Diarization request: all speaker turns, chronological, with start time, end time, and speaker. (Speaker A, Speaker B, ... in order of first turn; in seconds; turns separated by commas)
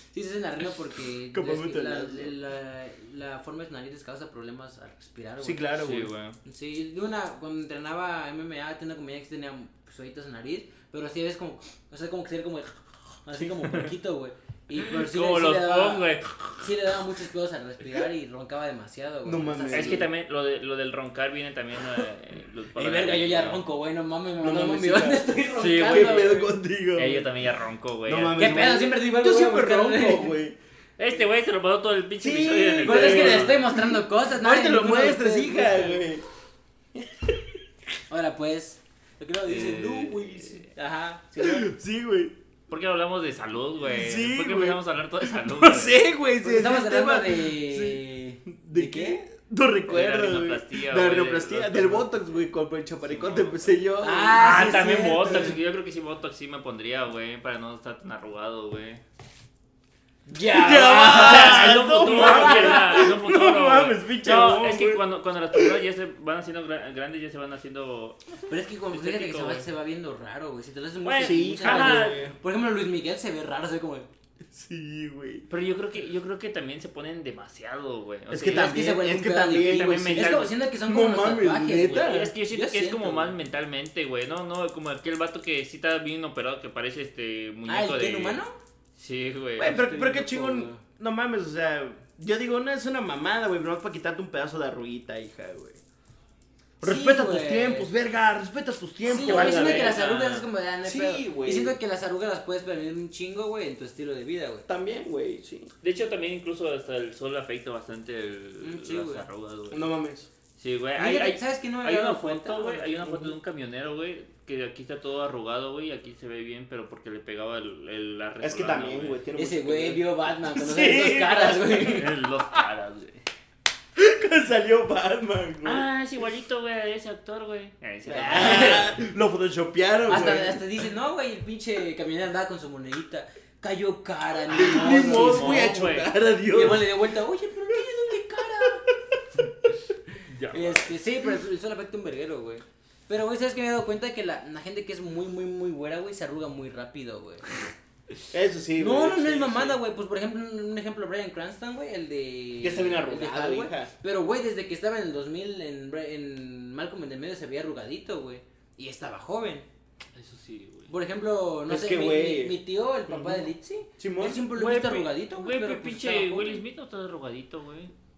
Speaker A: 0.1-5.7, Speaker B: 1.3-2.3, Speaker B: 5.4-6.1, Speaker C: 5.8-6.4, Speaker A: 6.5-12.7, Speaker A: 13.2-20.1, Speaker C: 14.8-16.6, Speaker B: 19.2-20.1, Speaker C: 19.7-23.6, Speaker A: 22.8-26.5, Speaker B: 24.4-27.3, Speaker C: 25.6-26.4, Speaker C: 26.9-28.5, Speaker B: 28.1-30.6, Speaker A: 28.4-30.4, Speaker C: 31.0-33.6, Speaker B: 32.2-36.2, Speaker A: 32.8-36.0, Speaker B: 37.0-37.4, Speaker A: 38.1-41.7, Speaker C: 39.5-40.7, Speaker B: 41.4-42.4, Speaker C: 42.7-46.0, Speaker B: 43.9-44.8, Speaker B: 45.4-55.6, Speaker A: 46.4-49.2, Speaker C: 49.9-52.1, Speaker C: 53.0-59.0, Speaker A: 54.0-55.6, Speaker A: 60.3-63.1, Speaker B: 60.4-65.0, Speaker C: 61.1-69.7, Speaker A: 68.5-74.1, Speaker C: 71.0-72.3, Speaker B: 71.2-72.4, Speaker B: 74.5-75.5, Speaker C: 75.5-78.8, Speaker B: 78.3-82.3, Speaker A: 78.4-83.4, Speaker C: 79.6-80.5, Speaker C: 81.8-88.4, Speaker A: 87.7-88.5, Speaker C: 89.0-89.8, Speaker B: 89.6-95.8, Speaker A: 89.6-90.8, Speaker A: 96.8-97.9, Speaker B: 96.8-100.1, Speaker A: 99.1-104.7, Speaker C: 99.1-100.5, Speaker B: 100.8-101.8, Speaker B: 104.7-105.7, Speaker C: 105.8-109.8, Speaker A: 108.6-109.3, Speaker B: 109.7-110.3, Speaker C: 110.6-119.2, Speaker A: 111.0-113.2, Speaker B: 118.4-122.1, Speaker A: 119.3-122.1, Speaker C: 121.9-123.2, Speaker B: 124.0-125.8, Speaker C: 125.6-128.9, Speaker A: 128.1-129.0, Speaker B: 128.1-130.8, Speaker A: 130.1-135.8, Speaker B: 134.5-136.9, Speaker C: 134.6-136.1, Speaker A: 136.5-138.9, Speaker C: 140.3-141.0, Speaker A: 140.5-147.6, Speaker B: 148.3-149.8, Speaker A: 148.8-159.7, Speaker B: 152.6-153.9, Speaker C: 160.2-160.9, Speaker A: 160.9-166.6, Speaker B: 161.7-162.6, Speaker B: 163.1-163.5, Speaker B: 164.0-164.5, Speaker C: 164.5-167.9